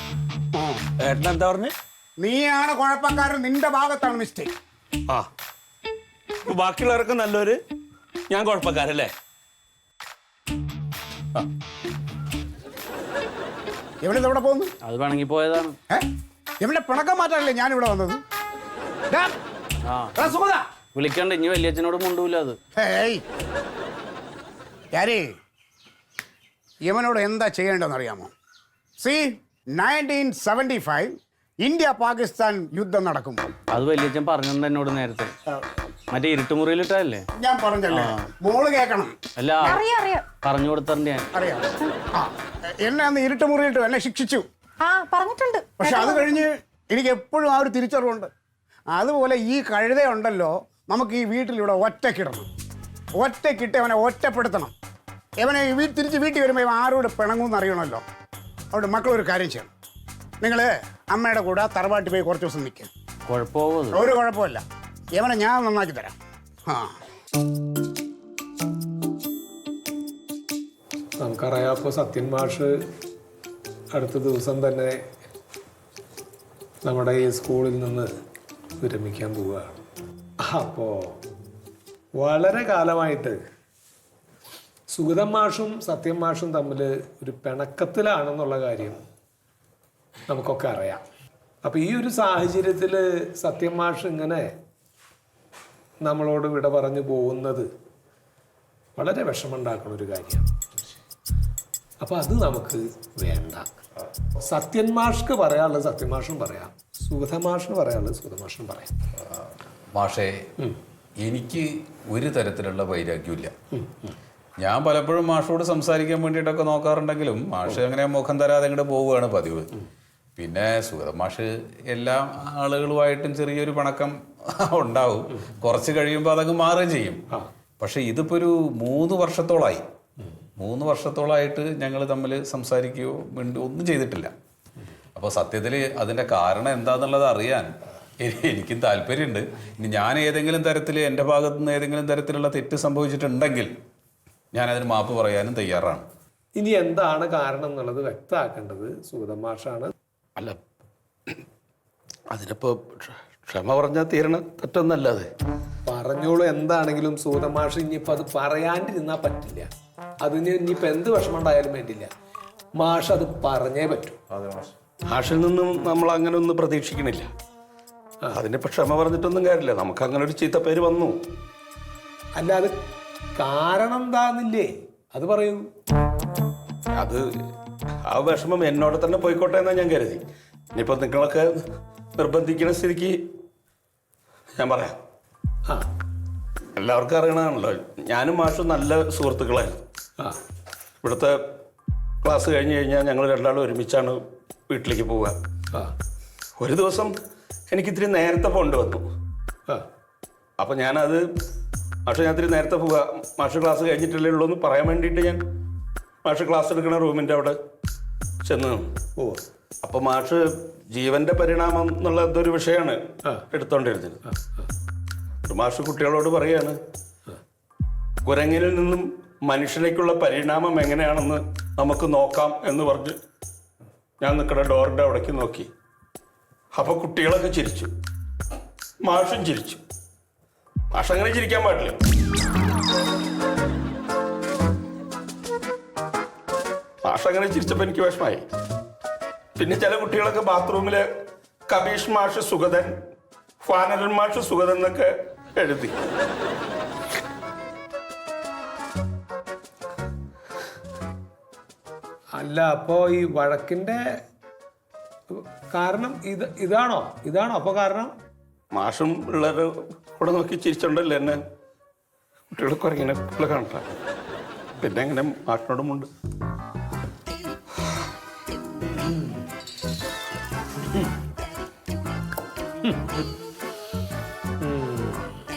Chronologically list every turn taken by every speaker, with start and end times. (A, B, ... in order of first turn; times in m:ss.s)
0:00.5-0:00.8 A
0:01.0-0:01.7 B
0:02.2-0:04.5 A
0:06.5-0:07.6 B
0:08.3-0:09.1 B
0:14.0-0:14.7 A
0:14.8-0:15.8 C
0:16.6-0:18.2 A
0:20.2-0:20.6 A
0:20.9-0:22.6 C
0:22.8-0:23.2 A
0:24.9-0:25.3 A
0:26.8-0:28.3 A
0:29.0-0:33.5 A
0:33.7-0:35.3 C
0:36.1-0:37.2 C
0:37.4-0:39.1 A
0:39.4-0:39.8 C
0:39.6-0:40.4 D
0:40.4-0:41.2 C
0:41.3-0:44.4 A
0:44.8-0:46.4 D
0:45.8-0:48.3 A
0:48.9-0:52.5 A
0:53.2-0:54.7 A
0:55.4-0:58.0 A
0:58.7-0:59.7 A
1:00.4-1:02.9 A
1:03.3-1:03.9 C
1:03.9-1:04.6 A
1:05.2-1:06.1 A
1:11.2-1:12.8 E
1:13.9-1:15.0 E
1:16.8-1:18.1 E
1:18.8-1:19.8 E
1:20.4-1:21.2 E
1:22.2-1:23.4 E
1:24.9-1:29.0 E
1:30.3-1:31.0 E
1:31.6-1:34.5 E
1:36.0-1:37.7 E
1:39.0-1:40.5 E
1:42.0-1:43.7 E
1:44.4-1:48.9 E
1:49.9-1:50.3 F
1:51.2-1:53.5 F
1:53.7-1:54.1 E
1:54.6-1:59.7 F
2:00.4-2:07.2 F
2:07.8-2:09.8 F
2:10.6-2:14.3 F
2:15.1-2:23.7 F
2:24.5-2:26.0 F
2:26.6-2:29.9 E
2:32.3-2:35.3 B
2:35.8-2:39.7 E
2:40.2-2:42.1 E
2:42.8-2:44.2 E
2:45.1-2:47.3 B
2:48.3-2:51.2 B
2:52.4-2:52.7 E
2:53.4-2:55.6 E
2:57.0-2:57.2 B
2:58.1-3:00.2 B
3:00.7-3:01.6 B
3:02.2-3:03.2 B
3:04.6-3:05.0 B
3:06.8-3:09.8 B
3:11.0-3:11.4 B
3:12.2-3:15.4 B
3:16.6-3:17.1 B
3:17.7-3:19.0 B
3:20.6-3:21.2 B
3:22.1-3:25.4 B
3:26.2-3:27.6 B
3:28.4-3:28.9 B
3:29.2-3:29.4 E
3:29.8-3:34.2 B
3:34.2-3:34.7 E
3:35.4-3:36.8 B
3:38.2-3:43.2 B
3:44.2-3:45.7 B
3:46.7-3:47.9 B
3:49.0-3:49.8 B
3:50.9-3:52.0 B
3:57.0-3:58.4 B
3:59.6-4:01.1 B
4:01.7-4:02.9 B
4:03.6-4:05.9 B
4:12.3-4:14.0 E
4:15.3-4:18.1 E
4:18.7-4:21.4 B
4:22.5-4:23.8 B
4:24.8-4:26.1 B
4:34.6-4:35.2 E